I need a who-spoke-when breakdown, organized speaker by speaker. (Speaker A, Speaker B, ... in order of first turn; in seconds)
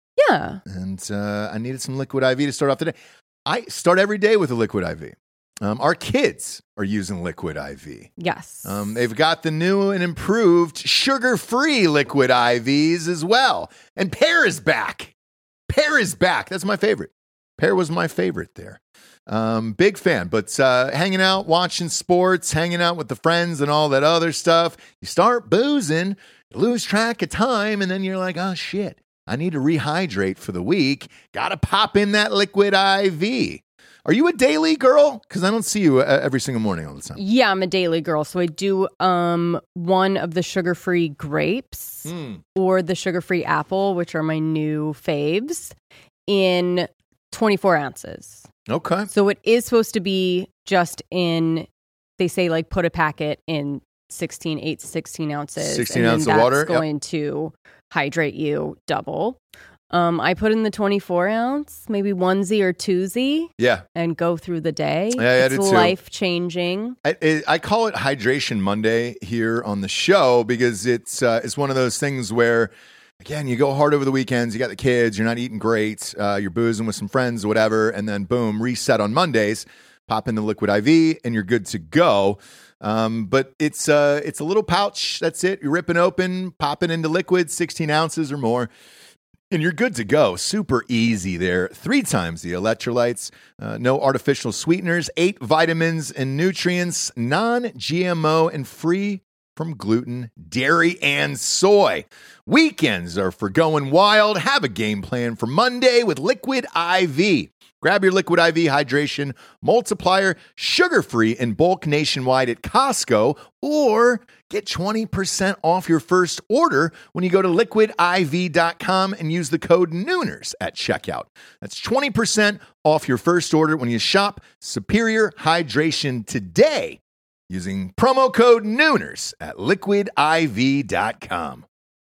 Speaker A: 0.2-0.6, 8.2-8.7, 37.2-45.7, 46.3-48.5, 49.1-51.7, 52.2-59.4, 59.9-67.0
Speaker B: 0.7-3.0, 3.5-8.1, 8.7-15.1, 15.7-37.2, 42.1-42.4, 48.7-49.1, 55.6-56.9, 63.6-63.8, 65.1-66.0, 67.0-88.7, 89.5-131.7